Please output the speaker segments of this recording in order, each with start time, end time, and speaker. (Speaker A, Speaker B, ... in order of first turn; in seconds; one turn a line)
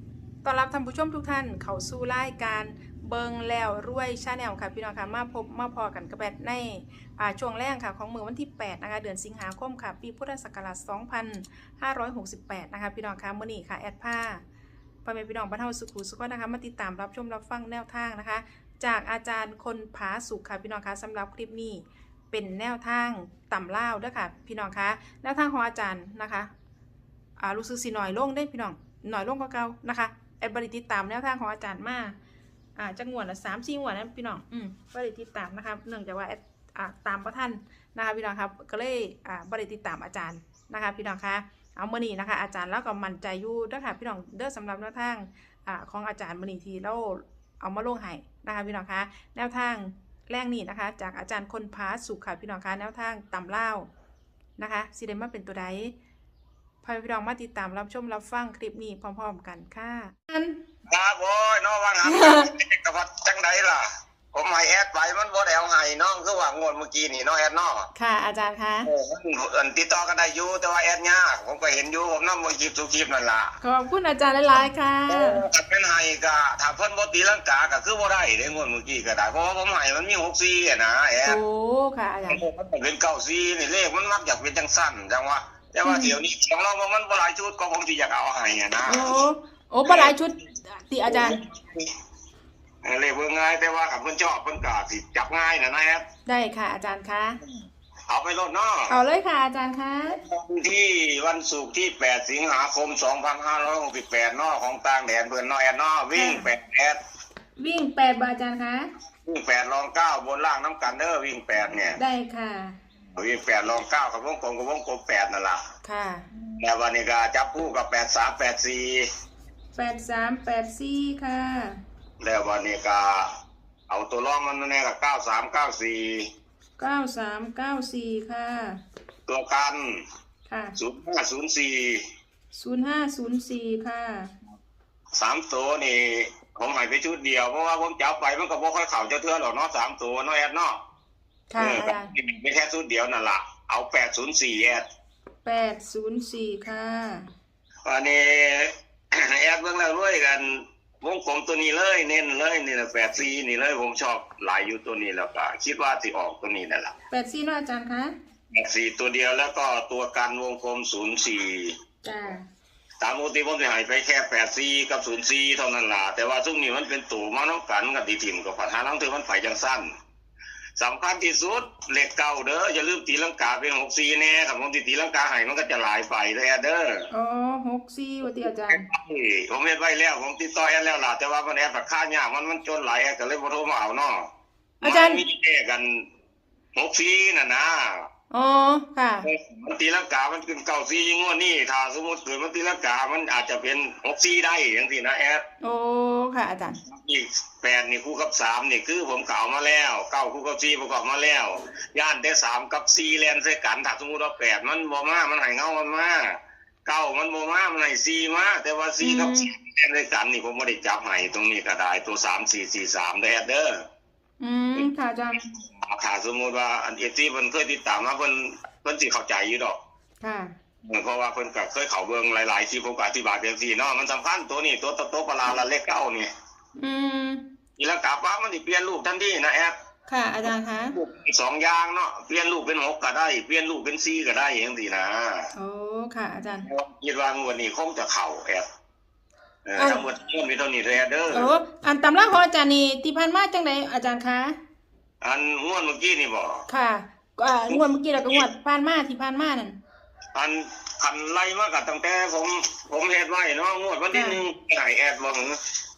Speaker A: 0.4-14.4
Speaker A: 15.0-26.5
Speaker A: 27.4-32.1
Speaker A: 32.8-53.9
Speaker A: 54.6-55.9
Speaker A: 56.8-60.6
Speaker B: 60.9-67.9
Speaker A: 62.0-62.5
Speaker A: 67.9-68.9
Speaker B: 68.8-73.5
Speaker A: 73.6-75.4
Speaker B: 75.1-81.4
Speaker A: 81.2-82.4
Speaker B: 82.3-89.2
Speaker A: 85.8-86.2
Speaker A: 88.9-91.4
Speaker B: 89.8-90.1
Speaker B: 91.0-91.9
Speaker B: 92.8-96.0
Speaker A: 96.2-97.4
Speaker B: 98.1-99.0
Speaker A: 98.9-100.2
Speaker B: 100.1-107.0
Speaker A: 106.1-106.5
Speaker A: 107.6-108.9
Speaker B: 109.2-112.0
Speaker A: 112.0-112.8
Speaker B: 113.1-115.6
Speaker A: 115.8-116.3
Speaker B: 116.4-119.0
Speaker A: 119.7-121.8
Speaker B: 122.2-123.3
Speaker B: 123.9-126.2
Speaker A: 126.8-128.8
Speaker B: 129.3-130.0
Speaker A: 130.5-130.8
Speaker B: 130.8-132.0
Speaker A: 132.5-134.3
Speaker B: 135.1-140.8
Speaker A: 141.5-142.1
Speaker B: 141.6-144.8
Speaker A: 145.4-147.3
Speaker B: 147.8-156.9
Speaker A: 157.1-158.1
Speaker B: 158.5-161.7
Speaker A: 162.0-162.4
Speaker B: 163.0-169.9
Speaker B: 170.8-177.0
Speaker A: 177.1-178.8
Speaker B: 178.2-184.3
Speaker A: 184.8-185.2
Speaker B: 184.8-186.0
Speaker B: 186.7-188.0
Speaker A: 188.3-189.3
Speaker B: 189.2-195.4
Speaker A: 195.6-196.8
Speaker B: 196.8-213.8
Speaker A: 209.0-209.5
Speaker A: 214.4-215.4
Speaker B: 215.4-219.8
Speaker A: 220.2-220.5
Speaker B: 220.8-226.3
Speaker A: 226.8-227.4
Speaker B: 227.8-229.7
Speaker A: 230.1-230.9
Speaker B: 230.5-235.5
Speaker A: 235.5-236.7
Speaker B: 236.6-238.7
Speaker B: 239.7-241.5
Speaker A: 239.8-240.0
Speaker A: 241.3-244.6
Speaker B: 245.2-246.6
Speaker A: 246.7-249.8
Speaker B: 247.7-248.4
Speaker B: 250.3-255.6
Speaker A: 254.1-254.4